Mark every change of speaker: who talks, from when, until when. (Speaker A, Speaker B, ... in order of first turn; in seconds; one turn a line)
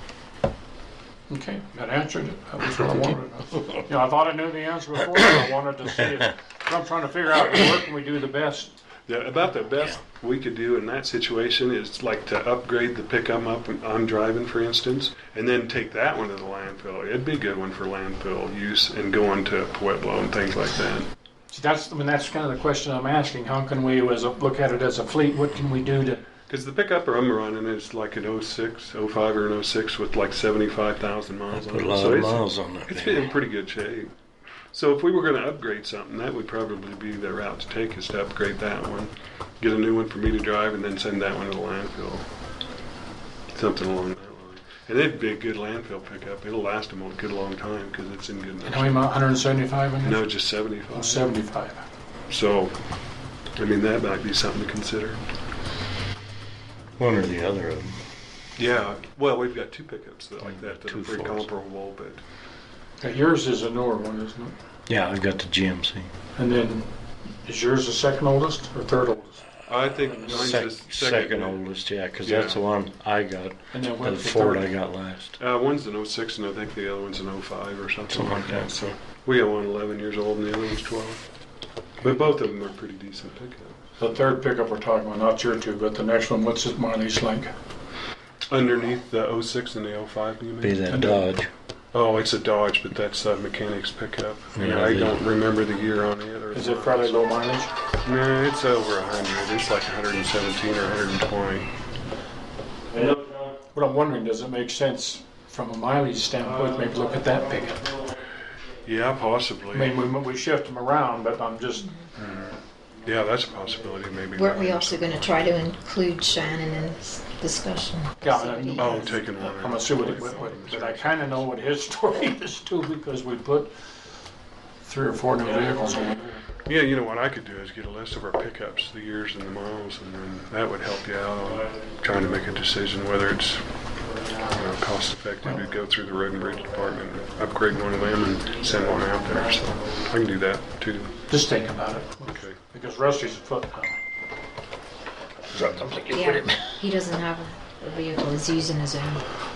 Speaker A: 1.3-8.8
Speaker B: 9.1-21.1
Speaker A: 21.5-26.2
Speaker B: 26.5-34.1
Speaker C: 31.5-33.2
Speaker B: 34.7-42.3
Speaker B: 43.5-49.1
Speaker A: 48.6-50.4
Speaker B: 50.0-51.3
Speaker A: 50.9-51.9
Speaker B: 52.3-52.8
Speaker B: 53.5-55.2
Speaker C: 57.0-58.0
Speaker B: 58.6-62.2
Speaker C: 60.4-61.5
Speaker A: 63.0-64.6
Speaker C: 64.9-66.1
Speaker A: 66.4-69.5
Speaker B: 69.7-71.6
Speaker C: 70.0-75.4
Speaker B: 72.2-72.6
Speaker A: 73.7-74.7
Speaker B: 75.4-81.2
Speaker C: 78.1-78.9
Speaker B: 82.0-83.8
Speaker A: 84.0-87.5
Speaker B: 88.5-91.1
Speaker C: 90.6-91.5
Speaker A: 90.9-91.2
Speaker B: 91.9-97.2
Speaker C: 94.5-95.2
Speaker A: 96.5-97.7
Speaker B: 98.0-101.7
Speaker A: 103.7-107.9
Speaker B: 108.8-110.0
Speaker A: 109.7-111.9
Speaker D: 111.8-112.1
Speaker B: 112.2-115.7
Speaker D: 114.3-119.0
Speaker A: 118.2-123.7
Speaker B: 118.8-121.4
Speaker A: 124.8-126.4
Speaker B: 126.7-133.7
Speaker B: 134.5-141.2
Speaker A: 141.3-144.0
Speaker B: 142.2-142.6
Speaker C: 145.5-146.7
Speaker B: 145.5-145.9
Speaker D: 146.1-149.2